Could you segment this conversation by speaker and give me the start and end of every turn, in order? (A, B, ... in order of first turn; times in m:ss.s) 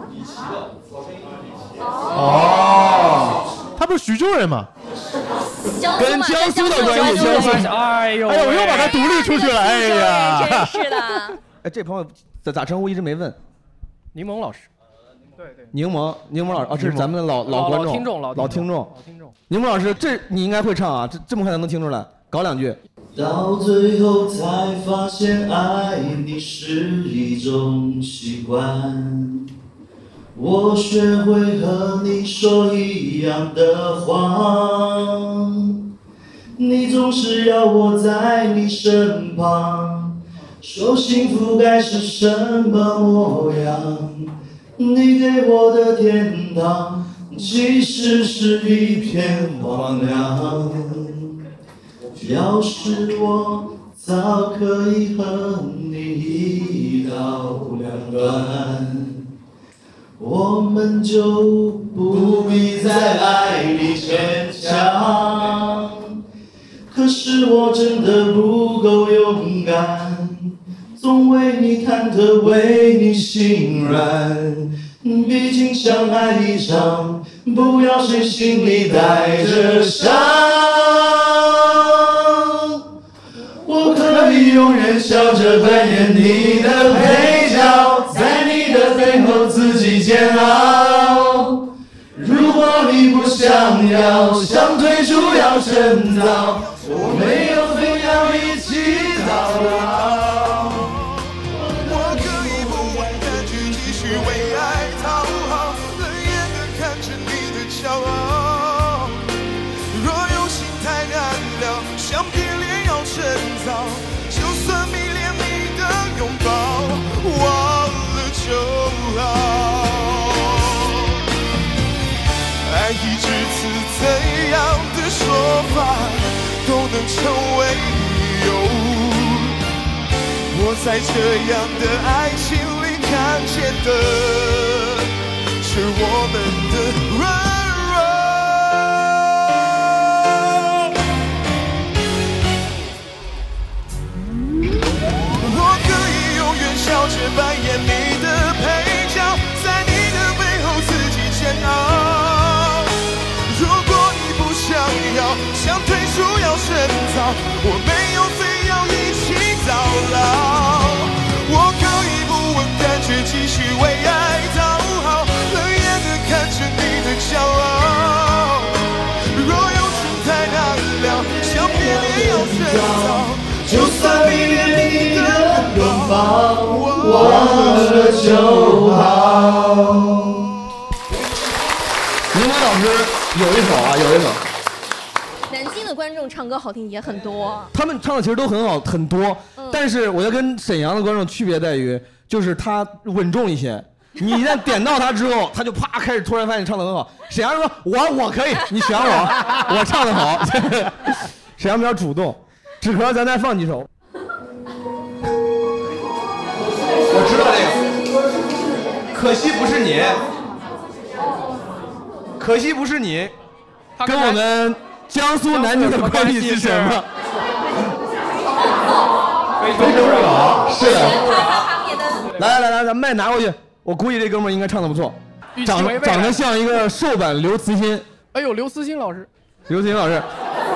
0:02.1-0:02.6 A
0:03.8-0:04.7 A
0:05.6-0:07.7 B
0:06.0-0:07.8 C
0:06.8-0:08.9 D
0:08.2-0:11.0 A
0:08.7-0:11.4 B
0:11.6-0:13.4 C
0:14.1-0:14.7 D
0:15.4-0:15.7 D
0:15.7-0:18.9 C
0:16.7-0:17.0 A
0:17.4-0:19.4 D
0:19.5-0:22.8 C
0:23.2-0:29.5 E
0:30.4-0:35.8 E
0:36.6-0:51.3 E
0:52.2-0:59.3 E
1:00.2-1:06.2 E
1:06.9-1:22.8 E
1:23.7-1:31.6 E
1:32.2-1:40.8 E
1:41.8-1:49.3 F
1:42.4-1:42.7 E
1:49.9-2:01.2 F
2:02.6-2:09.6 F
2:10.5-2:15.1 F
2:15.6-2:18.7 F
2:25.4-2:33.0 F
2:33.5-2:58.4 F
2:51.2-3:00.3 E
3:02.3-3:04.4 C
3:05.5-3:07.7 B
3:07.7-3:23.9 C
3:27.1-3:27.8 C
3:29.1-3:30.2 C
3:32.4-3:33.3 C
3:34.0-3:34.4 D
3:34.0-3:37.1 C
3:35.5-3:37.0 D
3:39.6-3:40.5 D
3:39.8-3:41.3 C
3:40.7-3:42.3 B
3:42.4-3:48.1 C
3:45.6-3:46.4 D
3:48.3-3:49.3 D
3:49.7-3:50.3 C